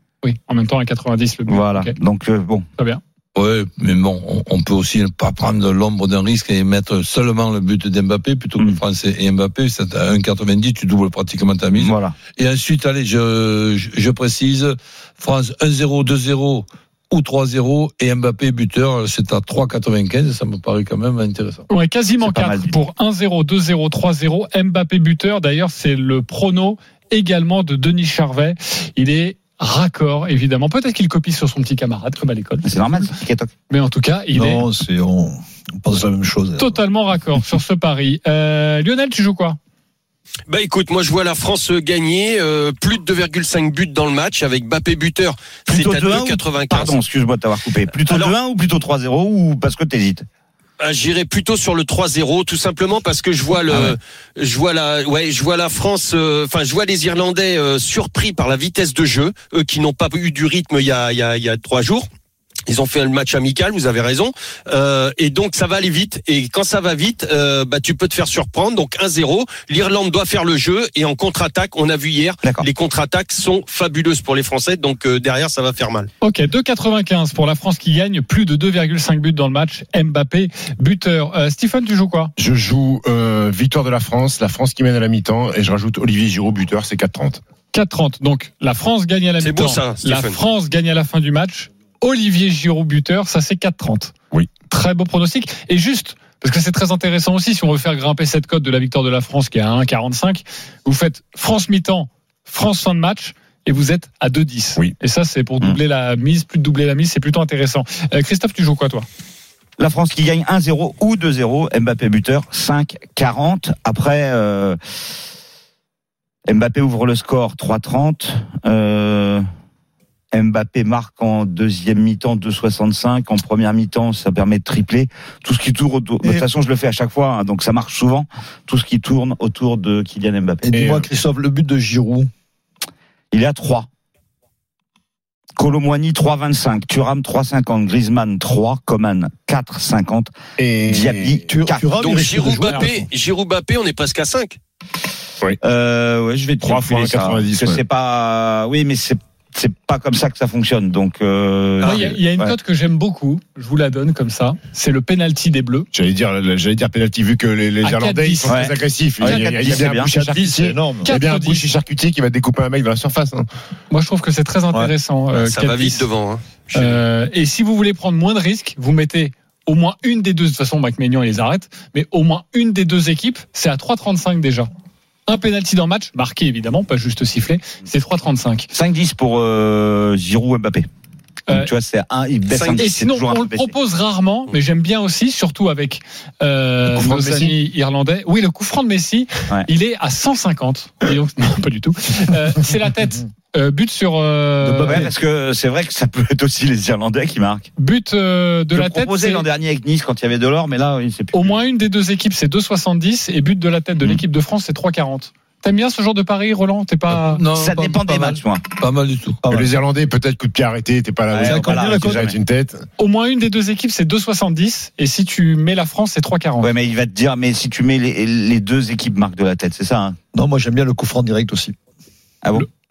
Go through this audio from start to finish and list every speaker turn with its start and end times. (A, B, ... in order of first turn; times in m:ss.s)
0:00.2-0:01.9 A
0:01.5-0:02.7 B
0:03.4-0:21.6 C
0:11.7-0:12.2 B
0:21.7-0:33.1 A
0:22.2-0:22.7 B
0:32.6-0:33.5 B
0:33.7-0:34.6 A
0:34.3-0:36.8 D
0:36.6-0:39.6 A
0:40.5-0:47.0 E
0:45.7-0:50.3 B
0:48.0-0:48.4 E
0:50.8-1:02.1 E
0:53.7-0:54.0 B
1:02.7-1:16.1 E
1:16.2-1:22.3 A
1:22.4-1:27.4 F
1:27.7-1:34.2 A
1:29.4-1:30.4 E
1:34.7-1:49.1 A
1:49.8-1:54.8 B
1:56.5-1:59.4 B
2:00.3-2:10.7 B
2:10.6-2:12.3 D
2:10.7-2:11.1 F
2:13.3-2:13.9 B
2:15.6-2:20.3 B
2:20.6-2:21.5 F
2:20.9-2:22.1 B
2:21.5-2:23.0 D
2:22.0-2:24.6 E
2:25.6-2:32.6 B
2:26.6-2:27.8 F
2:31.8-2:32.1 E
2:31.8-2:35.9 A
2:35.9-2:43.5 F
2:37.8-2:38.6 A
2:38.5-2:40.1 B
2:39.7-2:41.1 D
2:41.0-2:41.7 A
2:43.9-2:46.1 A
2:45.3-2:47.0 E
2:46.7-2:54.7 A
2:55.3-2:58.7 A
2:58.7-3:00.9 B
3:01.5-3:03.7 B
3:02.5-3:02.8 E
3:02.8-3:15.1 A
3:07.0-3:07.6 F
3:14.6-3:15.1 D
3:14.9-3:17.7 B
3:17.8-3:19.5 A
3:18.7-3:21.6 B
3:21.3-3:27.4 A
3:27.1-3:29.4 C
3:27.6-3:28.6 B
3:29.4-3:29.7 D
3:29.5-3:32.8 F
3:31.3-3:32.4 B
3:31.4-3:32.3 D
3:33.0-3:36.7 A
3:36.6-3:40.2 B
3:40.3-3:41.8 D
3:42.4-3:42.7 B